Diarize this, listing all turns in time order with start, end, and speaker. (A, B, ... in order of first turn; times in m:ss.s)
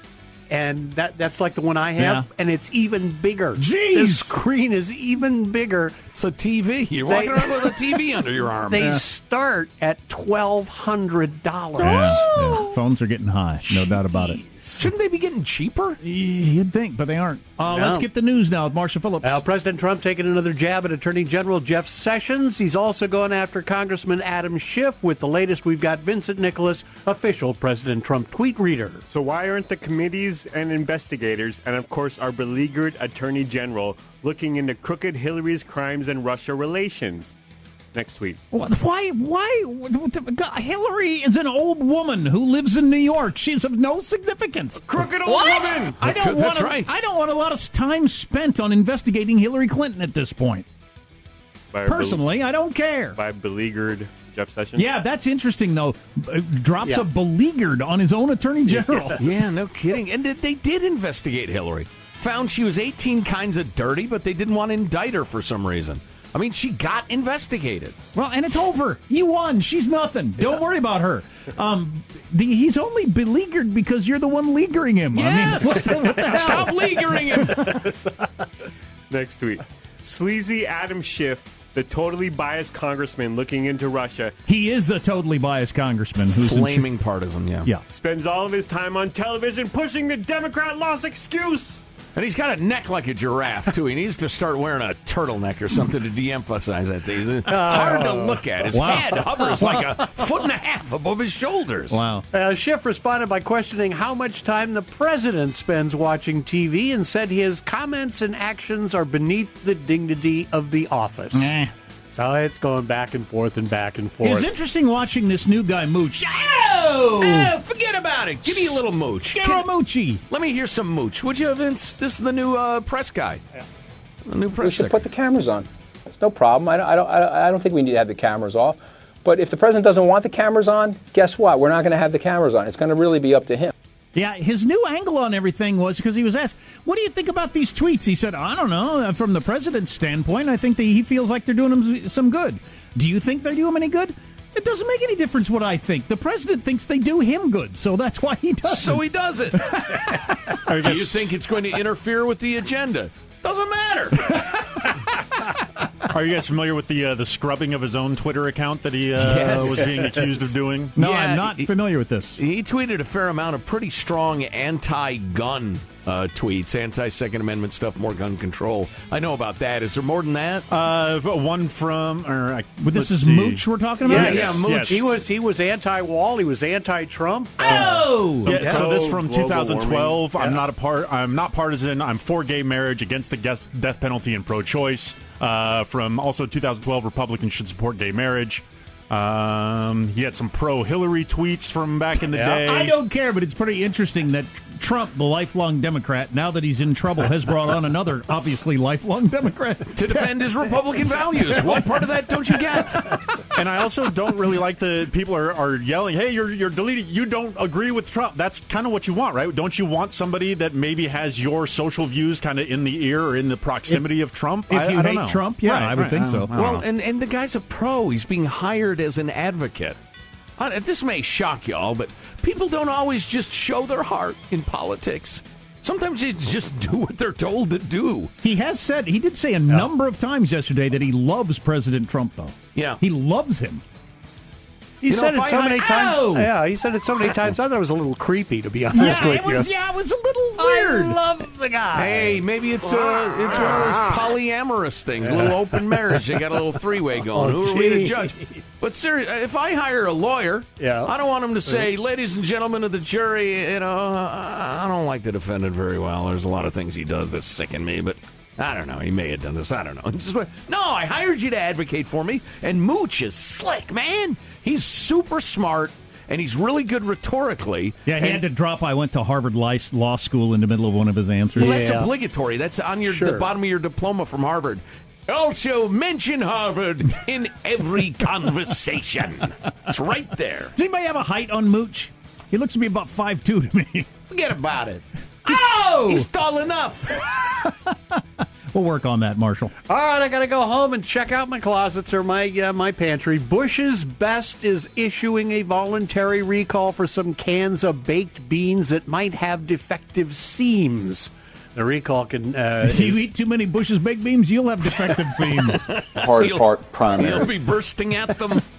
0:00.5-0:06.0 A
0:02.0-0:02.3 B
0:03.6-0:04.4 B
0:06.2-0:09.0 C
0:07.1-0:08.0 A
0:08.7-0:12.3 A
0:11.8-0:12.7 C
0:11.8-0:14.4 B
0:13.8-0:14.7 A
0:14.8-0:16.0 C
0:16.0-0:19.4 B
0:17.7-0:18.1 A
0:19.2-0:29.0 A
0:29.1-0:37.4 D
0:37.9-0:38.4 D
0:38.5-0:50.7 B
0:44.9-0:47.0 C
0:51.7-0:52.3 D
0:51.8-0:53.2 B
0:53.2-0:54.9 D
0:54.8-0:59.2 B
0:59.2-1:08.0 C
1:08.2-1:17.6 B
1:15.1-1:17.8 C
1:19.1-1:24.4 D
1:24.5-1:26.9 B
1:26.2-1:27.7 C
1:27.8-1:31.8 D
1:32.2-1:42.0 C
1:37.5-1:38.5 A
1:37.5-1:37.8 B
1:38.7-1:40.0 B
1:41.9-1:42.3 B
1:42.3-1:51.5 A
1:51.3-1:51.7 B
1:52.1-1:54.5 A
1:54.2-1:57.6 B
1:57.2-1:59.7 C
1:58.4-2:00.2 B
2:00.3-2:03.4 C
2:04.3-2:05.1 C
2:04.6-2:13.7 E
2:14.2-2:29.0 B
2:28.6-2:34.7 C
2:29.7-2:30.6 B
2:30.7-2:31.4 F
2:36.1-2:41.0 F
2:39.2-2:40.2 C
2:41.0-2:42.4 B
2:41.0-2:41.7 C
2:42.4-2:50.7 C
2:50.7-2:55.2 F
2:52.8-2:54.6 B
2:54.0-2:59.6 A
2:54.1-2:55.2 C
2:57.6-2:58.7 B
2:58.4-3:13.0 F
2:58.6-3:00.3 D
3:12.2-3:20.3 B
3:19.9-3:23.1 C
3:21.0-3:23.4 B
3:23.5-3:36.8 F
3:34.7-3:36.5 B
3:36.5-3:40.0 C
3:40.6-3:48.3 C
3:48.4-3:53.8 B
3:52.8-3:53.0 C
3:55.0-3:59.7 A
3:55.1-3:56.0 C
3:55.5-3:56.5 B
3:58.9-4:01.2 B
4:00.6-4:04.3 A
4:01.9-4:28.4 C
4:05.2-4:06.2 A
4:07.3-4:08.4 A
4:10.8-4:11.1 A
4:28.1-4:31.8 B
4:31.6-4:32.1 A
4:31.6-4:40.7 C
4:33.1-4:33.5 A
4:40.8-4:44.1 B
4:44.3-4:47.3 C
4:45.5-4:46.3 B
4:47.4-4:49.7 B
4:49.9-5:03.3 A
5:02.8-5:05.8 B
5:05.7-5:08.7 C
5:06.2-5:07.6 E